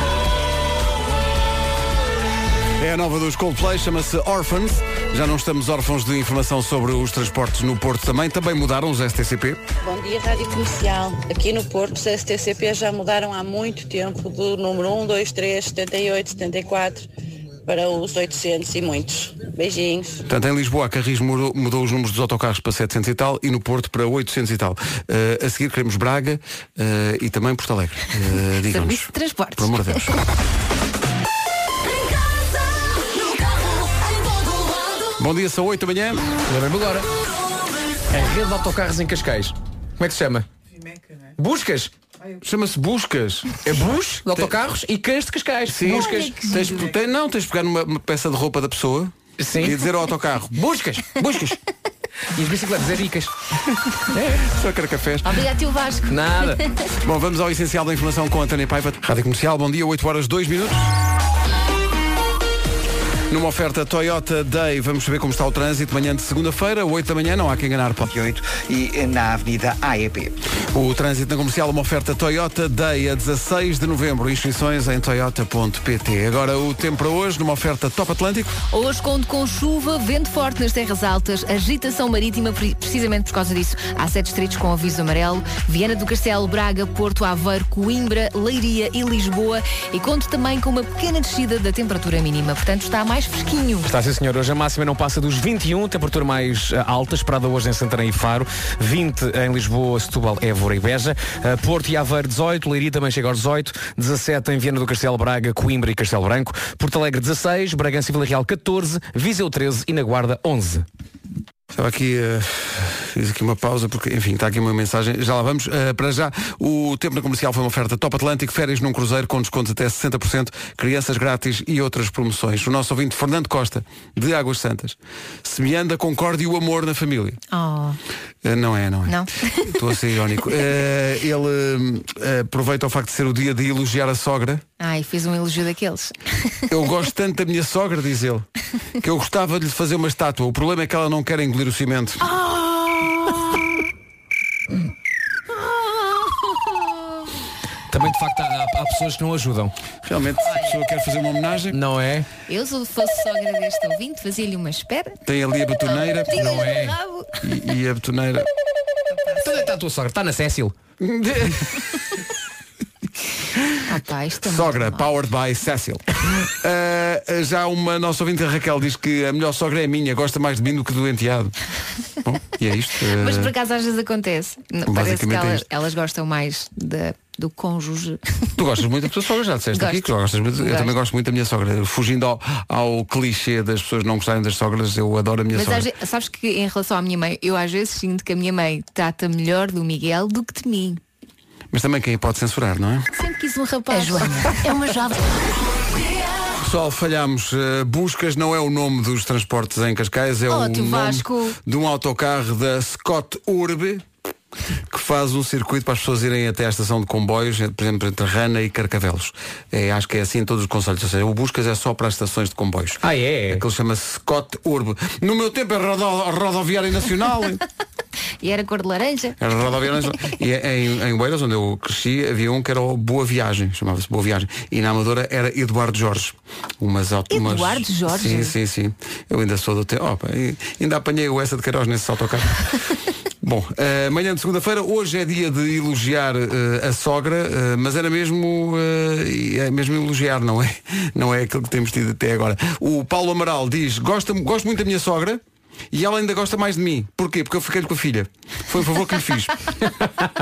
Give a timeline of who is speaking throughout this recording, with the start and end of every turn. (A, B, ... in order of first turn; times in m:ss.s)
0:02.8-0:09.6 A
0:09.8-0:17.1 B
0:17.7-0:20.2 B
0:20.3-0:30.2 A
0:28.7-0:30.0 C
0:35.2-0:36.4 A
0:36.5-0:37.1 D
0:38.1-0:40.5 D
0:41.4-0:41.9 D
0:42.4-0:44.5 A
0:43.6-0:46.6 D
0:45.7-0:50.6 A
0:45.9-0:46.9 C
0:49.4-0:49.8 D
0:50.5-0:51.3 D
0:51.2-0:51.6 A
0:52.4-0:53.3 D
0:54.1-0:54.5 D
0:54.4-0:55.4 A
0:55.2-0:56.5 C
0:56.1-0:56.6 D
0:57.0-1:00.9 A
1:03.3-1:08.1 A
1:08.1-1:10.4 E
1:10.7-1:18.6 A
1:18.7-1:33.9 C
1:33.8-1:50.8 D
1:51.7-2:07.4 A
2:07.5-2:08.0 C
2:08.4-2:14.6 A
2:09.1-2:09.8 C
2:14.8-2:16.6 C
2:16.7-2:18.5 A
2:19.0-2:22.3 A
2:22.4-2:23.6 D
2:27.9-2:29.7 D
2:30.0-2:31.8 A
2:31.7-2:32.3 D
2:32.5-2:35.2 C
2:35.3-2:36.4 A
2:35.9-2:37.4 C
2:36.3-2:37.0 D
2:37.4-2:38.5 A
2:39.1-2:39.7 C
2:39.4-2:40.7 D
2:41.0-2:41.8 A
2:43.9-2:45.1 C
2:44.4-2:51.6 A
2:52.2-2:53.5 A
2:53.1-2:58.6 C
2:54.9-2:55.6 A
2:58.6-3:05.9 A
2:59.7-3:00.9 C
3:05.5-3:11.0 C
3:11.7-3:13.1 A
3:13.1-3:15.2 C
3:16.5-3:24.1 A
3:20.5-3:21.6 C
3:24.9-3:37.6 A
3:33.0-3:33.6 D
3:38.4-3:39.4 C
3:39.4-3:52.8 A
3:47.3-3:48.6 C
3:53.4-4:05.4 A
4:05.9-4:09.7 A